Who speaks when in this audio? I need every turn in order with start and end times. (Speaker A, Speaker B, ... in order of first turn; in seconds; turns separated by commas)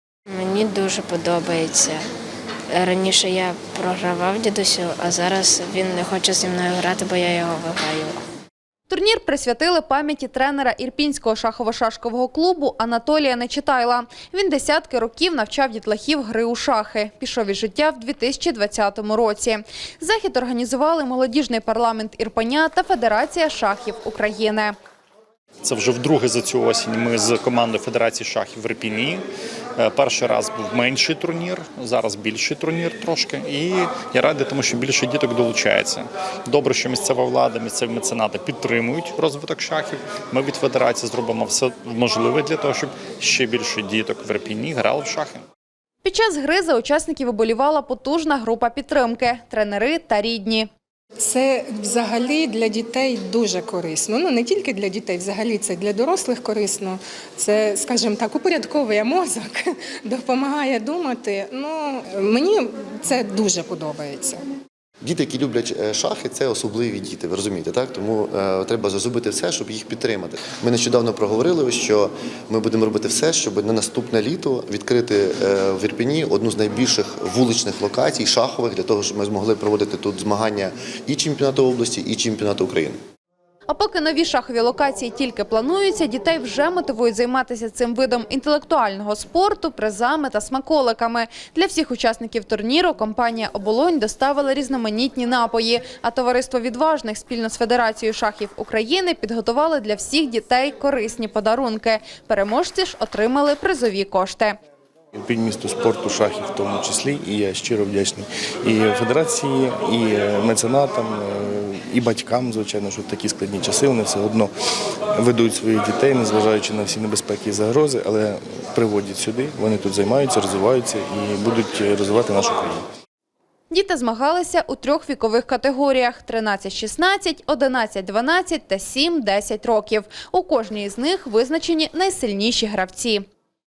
Speaker A: 0.3-2.0, Speaker A: 2.7-8.2, Speaker B: 8.9-24.7, Speaker C: 25.6-29.2, Speaker C: 29.8-45.4, Speaker B: 46.0-50.7, Speaker D: 51.2-64.4, Speaker E: 65.0-83.0, Speaker B: 83.7-104.5, Speaker F: 105.1-114.5, Speaker F: 115.2-122.8, Speaker B: 123.7-133.2